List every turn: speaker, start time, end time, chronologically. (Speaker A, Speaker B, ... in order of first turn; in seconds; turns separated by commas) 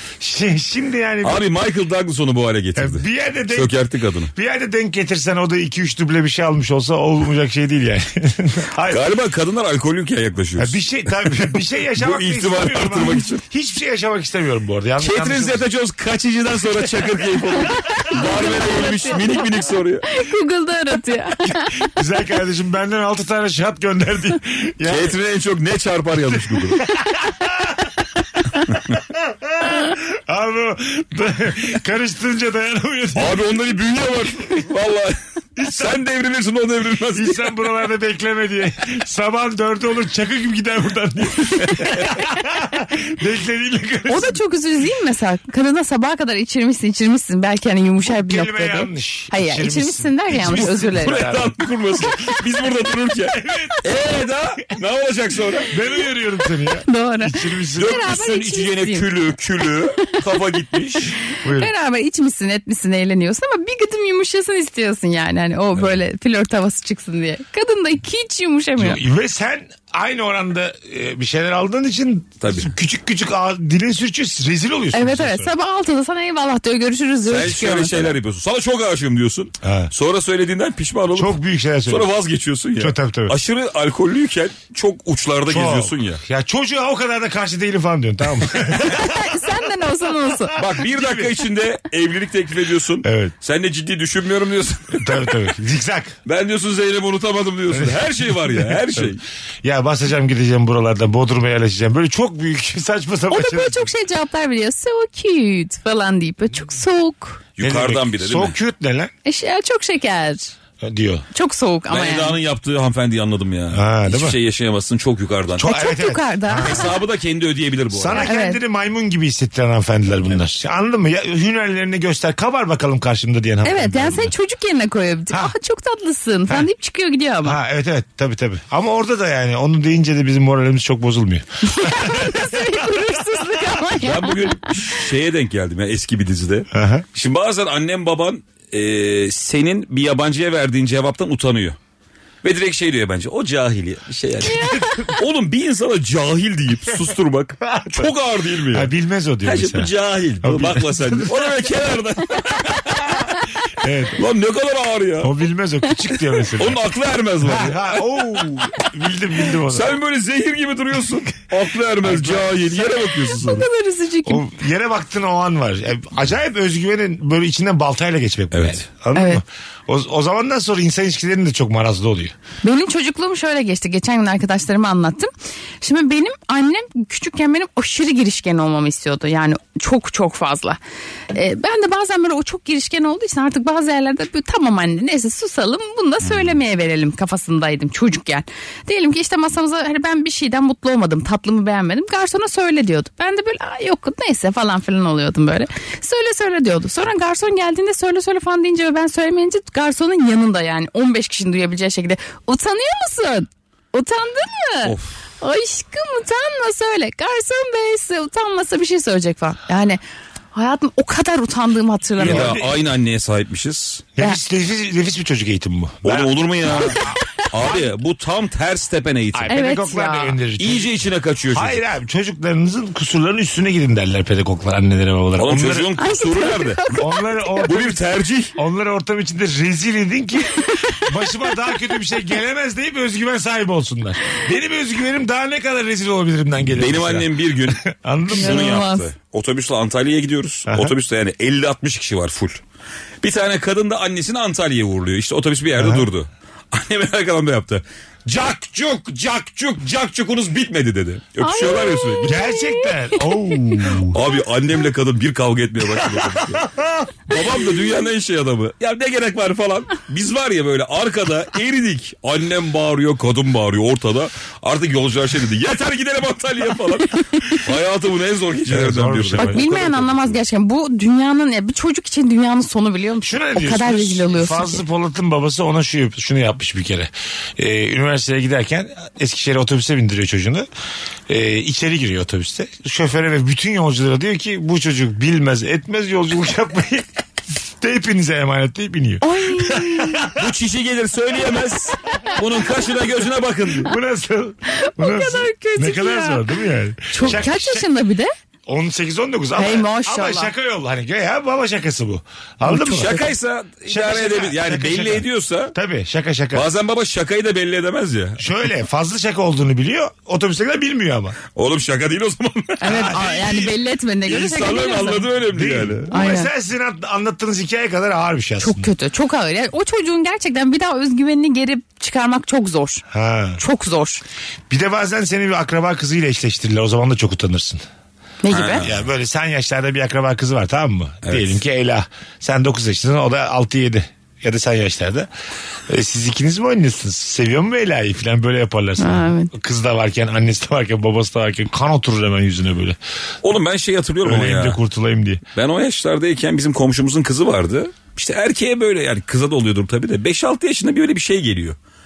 Speaker A: 0.2-1.4, Speaker B: 1.2-4.3, Speaker A: 2.8-3.7, Speaker A: 4.3-9.1, Speaker B: 8.9-13.4, Speaker A: 10.6-15.6, Speaker B: 15.0-20.1, Speaker C: 17.8-19.5, Speaker C: 20.1-21.9, Speaker A: 21.8-25.1, Speaker B: 24.8-26.9, Speaker A: 26.9-27.8, Speaker B: 28.7-29.0, Speaker A: 29.1-33.4, Speaker B: 33.1-37.5, Speaker A: 35.5-36.0, Speaker A: 37.1-44.4, Speaker B: 41.6-42.1, Speaker C: 44.1-51.3, Speaker A: 48.0-51.6, Speaker B: 50.5-55.7, Speaker A: 53.3-53.8, Speaker A: 55.7-58.2, Speaker C: 56.9-59.1, Speaker B: 57.8-61.1, Speaker A: 61.4-61.7, Speaker C: 61.5-69.0, Speaker A: 68.8-75.5, Speaker B: 72.4-72.7, Speaker C: 74.9-78.1, Speaker B: 77.3-86.2, Speaker A: 79.6-79.9, Speaker A: 81.2-82.1, Speaker A: 82.8-83.3, Speaker A: 85.5-89.2, Speaker C: 88.7-90.6, Speaker B: 90.5-95.5, Speaker A: 90.8-91.3, Speaker A: 93.0-93.3, Speaker A: 95.0-96.2, Speaker B: 96.2-99.2, Speaker A: 97.7-99.1, Speaker A: 99.6-103.9, Speaker C: 103.3-107.4, Speaker B: 107.6-108.5, Speaker A: 107.6-109.1, Speaker C: 109.2-110.5, Speaker A: 110.8-111.2, Speaker C: 111.3-112.3, Speaker B: 111.9-115.7, Speaker A: 113.7-114.4, Speaker A: 115.5-116.9, Speaker C: 115.6-117.0, Speaker B: 116.6-118.2, Speaker A: 117.9-124.3, Speaker C: 118.1-118.6, Speaker C: 123.6-127.6, Speaker A: 127.4-133.1, Speaker C: 131.6-134.9, Speaker B: 134.0-141.8, Speaker A: 136.7-137.1, Speaker B: 142.4-148.9, Speaker C: 144.5-145.2, Speaker A: 144.6-145.0, Speaker A: 147.6-148.1, Speaker A: 148.7-149.9, Speaker B: 149.4-153.3, Speaker A: 150.4-151.6, Speaker A: 153.7-154.2, Speaker B: 154.2-155.3, Speaker A: 155.2-156.8, Speaker B: 156.5-158.7, Speaker A: 157.4-159.9, Speaker B: 159.7-163.7, Speaker A: 162.0-162.8, Speaker C: 163.2-164.4, Speaker A: 164.2-172.3, Speaker B: 168.5-168.8, Speaker C: 169.1-169.4, Speaker C: 172.6-180.8, Speaker C: 181.3-210.0, Speaker B: 204.8-205.1, Speaker C: 210.5-212.6, Speaker B: 212.2-214.1, Speaker A: 212.2-212.8, Speaker A: 214.2-217.9, Speaker B: 216.0-219.6, Speaker A: 219.3-220.9, Speaker C: 219.5-220.4, Speaker B: 220.6-221.8, Speaker A: 221.5-225.9, Speaker B: 225.4-226.8, Speaker C: 226.0-227.6, Speaker A: 226.9-228.0, Speaker B: 227.7-228.6, Speaker A: 228.6-238.8, Speaker C: 230.6-231.1, Speaker B: 236.7-242.6, Speaker C: 238.3-239.1, Speaker A: 240.7-240.9, Speaker B: 243.2-252.4, Speaker A: 245.8-246.0, Speaker A: 248.3-249.0, Speaker C: 251.4-254.0, Speaker A: 252.2-254.2, Speaker B: 254.1-256.7, Speaker A: 256.0-257.3, Speaker B: 257.3-270.4, Speaker A: 268.7-269.6, Speaker C: 269.4-274.8, Speaker A: 273.2-280.7, Speaker A: 281.3-287.1, Speaker A: 287.8-290.4, Speaker C: 289.2-290.3, Speaker B: 290.4-293.9, Speaker A: 293.8-297.9, Speaker C: 294.7-296.4, Speaker C: 297.1-298.3, Speaker A: 298.7-303.2, Speaker C: 299.5-300.5, Speaker C: 302.6-303.3, Speaker B: 302.7-305.7, Speaker A: 303.9-306.7, Speaker B: 306.5-308.5, Speaker A: 308.4-311.4, Speaker B: 311.5-313.1, Speaker C: 312.8-315.3, Speaker A: 312.8-313.8, Speaker B: 314.2-316.2, Speaker A: 315.4-318.9, Speaker C: 316.1-316.5, Speaker C: 318.6-323.0, Speaker A: 323.1-323.6, Speaker C: 323.6-324.2, Speaker A: 324.7-327.8, Speaker C: 328.4-328.9, Speaker B: 328.5-329.0, Speaker A: 328.8-335.3, Speaker B: 331.2-331.6, Speaker A: 335.9-343.0, Speaker C: 339.0-339.5, Speaker B: 343.4-344.8, Speaker A: 344.2-345.4, Speaker B: 345.5-351.8